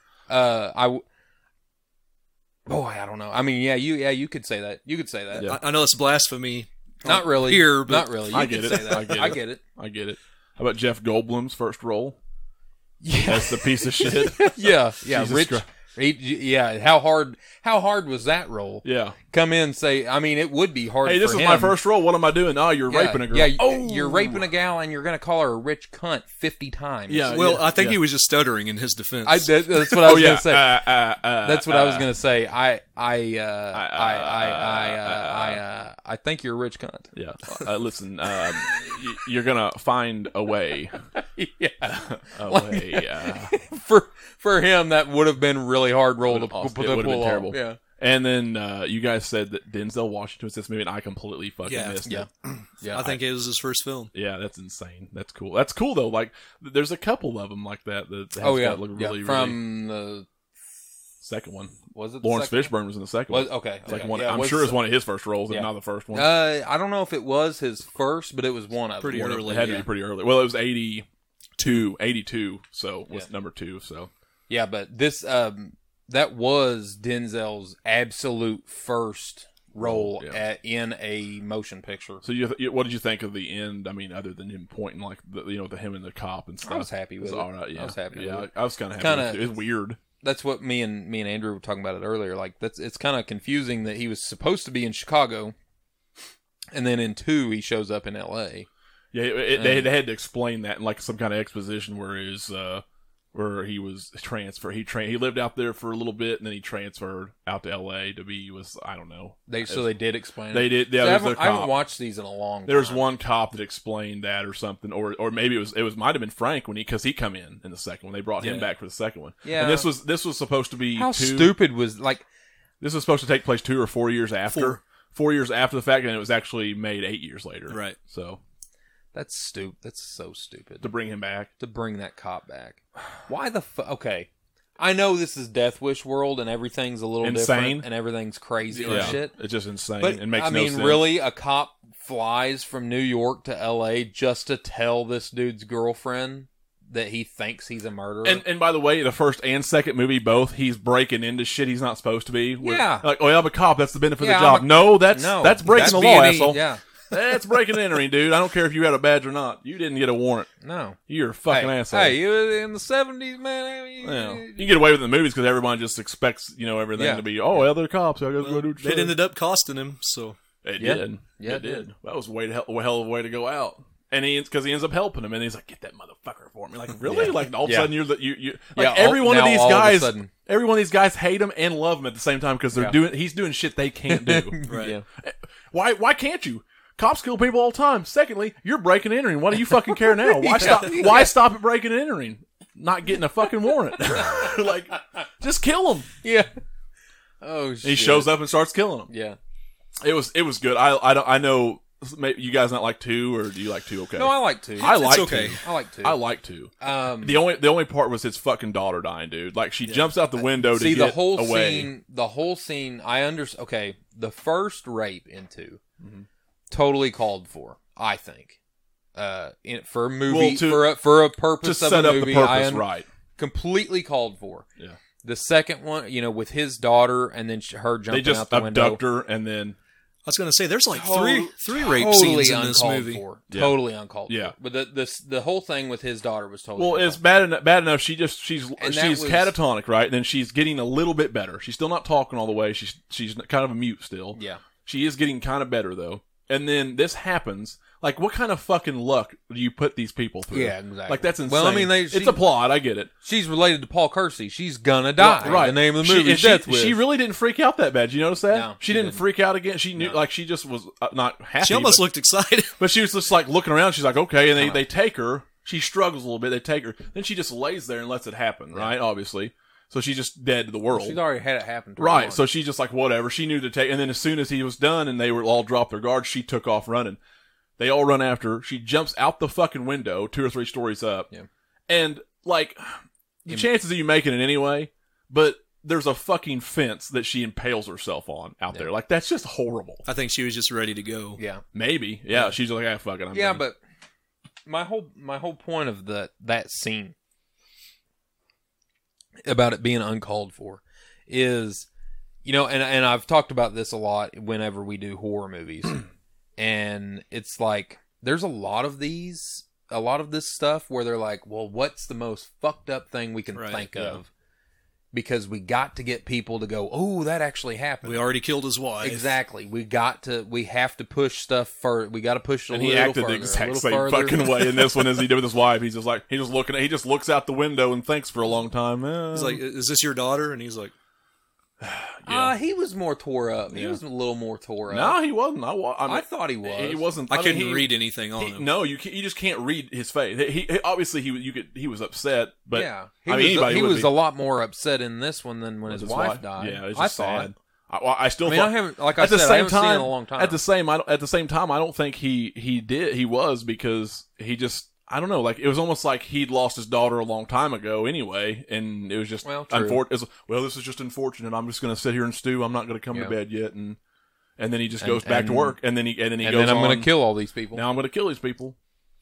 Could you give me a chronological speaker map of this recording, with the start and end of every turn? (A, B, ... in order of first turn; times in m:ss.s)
0:00.3-0:01.0 A
0:02.7-0:05.5 A
0:05.4-0:08.4 B
0:07.0-0:09.6 A
0:08.2-0:12.2 C
0:13.0-0:21.8 A
0:13.2-0:15.6 C
0:18.8-0:19.2 C
0:21.0-0:24.4 C
0:22.9-0:27.4 A
0:27.1-0:28.0 C
0:27.3-0:30.0 B
0:29.3-0:30.8 A
0:30.0-0:32.1 C
0:31.4-0:37.1 A
0:33.7-0:35.6 C
0:37.1-0:41.0 C
0:41.2-0:47.8 A
0:41.9-0:43.5 C
0:46.3-0:52.3 C
0:51.7-0:52.0 B
0:52.0-0:53.2 A
0:52.9-0:54.1 B
0:54.1-0:59.6 C
0:58.4-1:00.3 A
1:01.2-1:06.3 C
1:01.9-1:02.7 A
1:03.3-1:04.8 A
1:05.5-1:09.8 A
1:09.0-1:09.9 B
1:09.1-1:11.1 C
1:11.6-1:14.1 C
1:14.5-1:22.2 A
1:19.8-1:20.4 C
1:22.2-1:30.0 C
1:26.6-1:29.5 A
1:30.2-1:35.6 A
1:36.7-1:38.7 A
1:39.1-1:49.9 C
1:39.6-1:39.9 A
1:49.5-1:53.0 A
1:50.5-1:51.7 C
1:52.7-2:01.6 C
1:58.4-1:58.7 B
1:59.4-1:59.9 A
2:01.0-2:02.2 A
2:02.8-2:08.4 C
2:04.5-2:04.8 B
2:07.7-2:08.0 B
2:09.1-2:10.9 A
2:10.8-2:11.5 C
2:11.6-2:19.4 A
2:17.2-2:17.9 C
2:18.8-2:21.1 C
2:18.8-2:19.2 B
2:20.0-2:28.4 A
2:28.2-2:40.5 C
2:32.6-2:33.1 A
2:34.2-2:36.8 A
2:40.6-2:41.0 A
2:41.1-2:42.2 C
2:41.5-2:44.7 A
2:44.0-2:49.2 C
2:47.0-2:47.6 A
2:48.4-2:50.4 B
2:50.6-3:04.6 C
2:50.8-2:51.9 A
2:57.0-2:57.9 A
2:58.8-3:00.3 A
3:04.1-3:05.0 A
3:04.7-3:05.0 B
3:05.2-3:16.1 C
3:10.1-3:11.3 A
3:16.2-3:16.5 A
3:17.4-3:18.3 A
3:17.8-3:19.1 C
3:19.1-3:19.4 A
3:20.0-3:31.9 C
3:24.2-3:26.2 A
3:24.8-3:25.6 B
3:26.8-3:27.4 A
3:30.6-3:35.8 A
3:36.0-3:36.3 C
3:36.7-3:38.6 A
3:39.2-3:42.8 A
3:40.3-3:41.0 C
3:41.6-3:43.1 C
3:43.4-3:44.7 A
3:45.2-3:49.0 A
3:48.1-3:49.8 C
3:50.3-3:53.2 B
3:50.9-3:57.2 A
3:53.5-3:54.5 C
3:56.8-4:13.1 C
3:58.8-3:59.6 A
4:04.4-4:04.6 A
4:10.5-4:12.4 A
4:13.2-4:17.0 A
4:15.2-4:22.0 C
4:18.5-4:19.2 A
4:21.6-4:22.8 B
4:22.8-4:31.2 C
4:24.6-4:24.8 A
4:30.9-4:32.4 A
4:32.0-4:37.2 C
4:37.8-4:41.3 C
4:41.9-4:50.0 C
4:50.1-4:51.4 B
4:51.4-4:51.6 A
4:51.7-4:53.6 C
4:53.3-4:53.8 A
4:54.7-4:57.2 A
4:59.4-5:01.9 A
5:02.4-5:06.0 A
5:06.6-5:14.3 A
5:13.5-5:14.2 B
5:15.1-5:18.3 A
5:18.0-5:19.4 B
5:19.0-5:24.8 A
5:22.7-5:29.6 C
5:29.3-5:30.9 B
5:31.8-5:32.5 C
5:32.3-5:35.2 A
5:33.7-5:34.0 C
5:34.9-5:44.1 C
5:36.1-5:37.1 A
5:37.3-5:38.7 B
5:42.7-5:47.5 A
5:45.9-6:04.0 C
5:48.4-5:50.6 A
5:59.4-6:00.0 A
6:04.6-6:07.1 C
6:05.0-6:05.8 A
6:06.4-6:07.8 A
6:07.7-6:08.8 C